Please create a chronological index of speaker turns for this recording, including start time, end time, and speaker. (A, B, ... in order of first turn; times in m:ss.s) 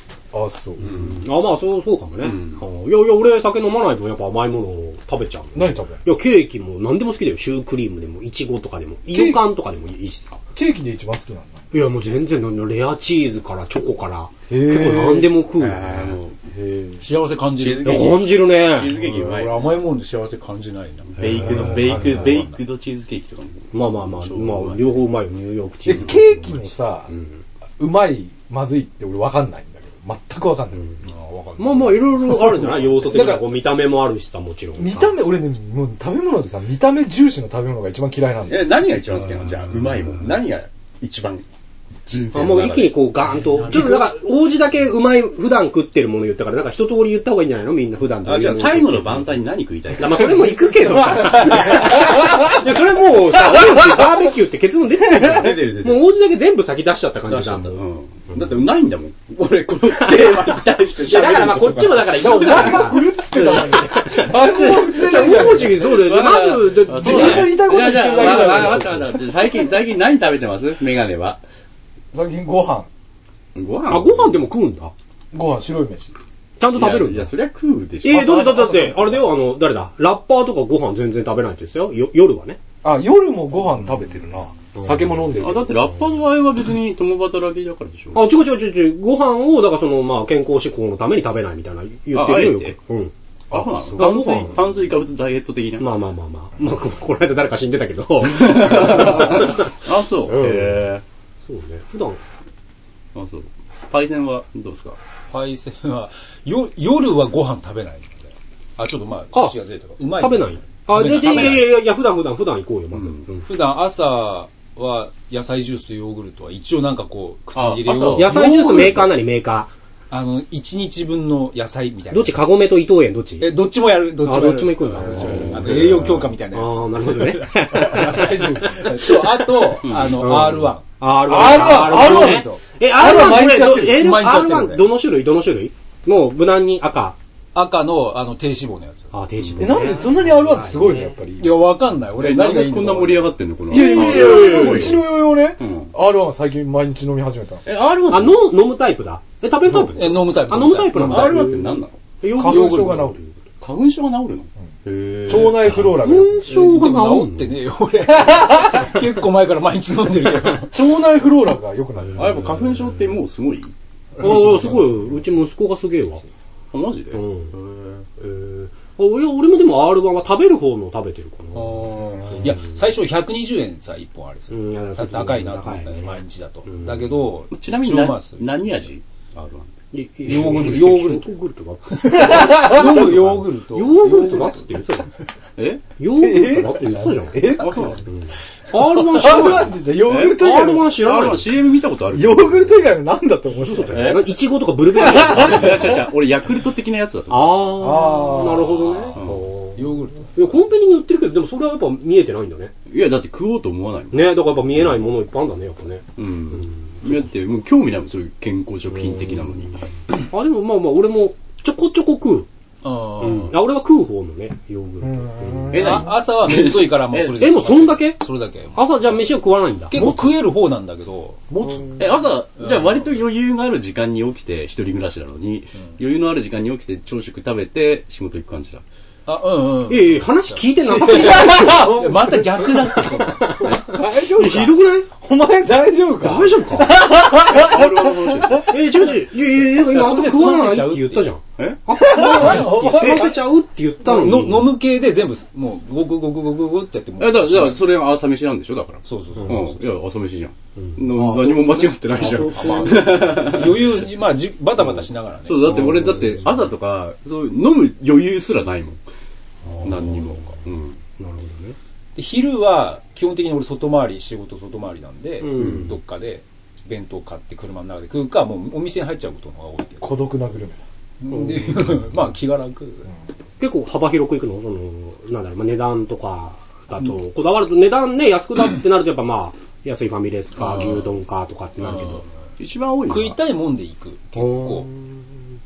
0:00.3-0:01.0 A
0:00.9-0:01.1 B
0:00.9-0:10.4 C
0:02.2-0:02.6 B
0:05.5-0:06.0 A
0:09.1-0:09.4 A
0:10.5-0:11.6 A
0:11.7-0:16.2 C
0:14.5-0:15.4 A
0:15.6-0:16.5 B
0:17.0-0:18.2 D
0:17.6-0:19.8 B
0:17.8-0:18.9 C
0:18.9-0:22.6 D
0:21.2-0:24.9 B
0:21.4-0:22.2 C
0:23.7-0:27.4 C
0:25.9-0:27.1 A
0:27.8-0:30.8 A
0:31.0-0:32.1 D
0:31.6-0:35.1 C
0:33.0-0:33.5 A
0:34.8-0:38.7 A
0:38.5-0:41.4 B
0:42.1-0:43.0 B
0:42.3-0:49.4 C
0:43.4-0:44.1 D
0:48.2-0:50.4 B
0:50.0-0:57.8 C
0:50.3-0:52.7 A
0:53.5-0:54.0 A
0:55.0-0:56.1 B
0:57.3-1:02.8 B
1:00.0-1:07.6 C
1:02.1-1:06.1 A
1:05.2-1:11.4 B
1:06.9-1:09.2 A
1:12.1-1:12.9 A
1:13.6-1:14.4 B
1:13.9-1:14.9 C
1:15.3-1:16.1 A
1:16.6-1:17.3 C
1:16.7-1:18.4 B
1:18.0-1:22.6 C
1:18.1-1:19.3 A
1:22.8-1:25.7 A
1:25.4-1:28.3 B
1:28.1-1:33.1 C
1:32.1-1:32.8 B
1:33.5-1:35.9 B
1:33.5-1:34.0 A
1:34.0-1:34.5 C
1:35.8-1:40.8 C
1:38.2-1:41.0 B
1:41.4-1:42.2 C
1:43.1-1:45.0 B
1:45.3-1:51.7 D
1:49.3-1:53.4 C
1:51.1-1:51.6 B
1:52.9-1:53.2 B
1:53.4-1:59.1 D
1:57.6-1:58.4 B
1:58.1-1:59.7 C
2:00.1-2:02.4 D
2:02.1-2:03.5 C
2:03.4-2:10.8 D
2:04.2-2:17.2 C
2:05.4-2:05.8 B
2:05.8-2:06.0 A
2:09.8-2:10.4 B
2:11.2-2:14.0 A
2:11.4-2:12.2 D
2:13.9-2:14.8 D
2:17.5-2:19.1 D
2:19.1-2:21.2 C
2:19.4-2:19.8 B
2:19.6-2:21.6 A
2:21.4-2:23.3 D
2:22.2-2:25.0 B
2:23.7-2:27.6 A
2:23.7-2:25.0 C
2:25.6-2:25.9 B
2:27.7-2:28.4 B
2:28.1-2:33.4 C
2:29.7-2:31.6 D
2:31.0-2:32.0 B
2:32.3-2:33.2 A
2:32.5-2:33.0 D
2:33.6-2:35.9 B
2:35.3-2:36.5 A
2:35.4-2:37.6 C
2:36.4-2:40.7 D
2:40.6-2:42.6 A
2:42.2-2:43.7 B
2:44.2-2:45.2 D
2:44.2-2:46.3 C
2:46.7-2:48.0 B
2:47.1-2:47.5 C
2:48.2-2:52.5 C
2:51.6-2:58.8 D
2:54.5-2:57.0 C
2:57.5-2:59.7 B
2:59.9-3:05.1 C
3:00.3-3:01.3 D
3:01.9-3:04.5 D
3:02.1-3:04.6 A
3:05.6-3:05.9 B
3:06.0-3:11.5 C
3:06.2-3:08.0 A
3:07.6-3:08.0 B
3:08.8-3:11.0 A
3:10.1-3:13.0 B
3:12.1-3:14.3 A
3:13.7-3:16.0 C
3:13.8-3:14.3 B
3:15.0-3:15.8 A
3:15.0-3:17.8 B
3:17.3-3:19.8 C
3:17.8-3:18.8 A
3:19.0-3:20.3 D
3:19.2-3:19.4 B
3:20.3-3:22.7 C
3:22.9-3:24.4 B
3:24.1-3:26.0 C
3:26.2-3:29.8 B
3:30.3-3:32.5 C
3:32.8-3:33.6 D
3:33.2-3:36.0 C
3:35.0-3:36.1 A
3:35.7-3:37.5 B
3:35.8-3:39.3 D
3:37.4-3:38.2 C
3:38.7-3:40.0 C
3:39.9-3:41.4 D
3:39.9-3:40.4 A
3:41.5-3:42.0 A
3:42.0-3:48.8 B
3:42.6-3:43.1 D
3:49.3-3:53.6 D
3:49.9-3:52.1 C
3:51.0-3:58.8 A
3:53.0-3:55.1 C
3:53.6-3:53.9 B
3:56.2-3:57.0 C
3:57.4-3:58.8 B
3:58.6-4:04.7 C
3:59.7-4:01.3 D
4:02.0-4:03.4 A
4:04.0-4:07.8 D
4:07.2-4:14.1 B
4:09.1-4:09.9 D
4:10.8-4:13.2 C
4:11.2-4:11.6 A
4:12.2-4:16.0 D
4:14.8-4:19.0 B
4:15.8-4:16.4 C
4:19.7-4:20.3 C
4:19.8-4:21.0 B
4:21.2-4:21.8 C
4:22.2-4:30.2 D
4:25.4-4:26.0 C
4:30.0-4:30.8 A
4:31.2-4:33.1 D
4:31.3-4:31.7 C
4:33.6-4:42.2 C
4:41.9-4:42.2 D
4:42.6-4:43.4 B
4:43.1-4:44.9 D
4:44.4-4:45.2 C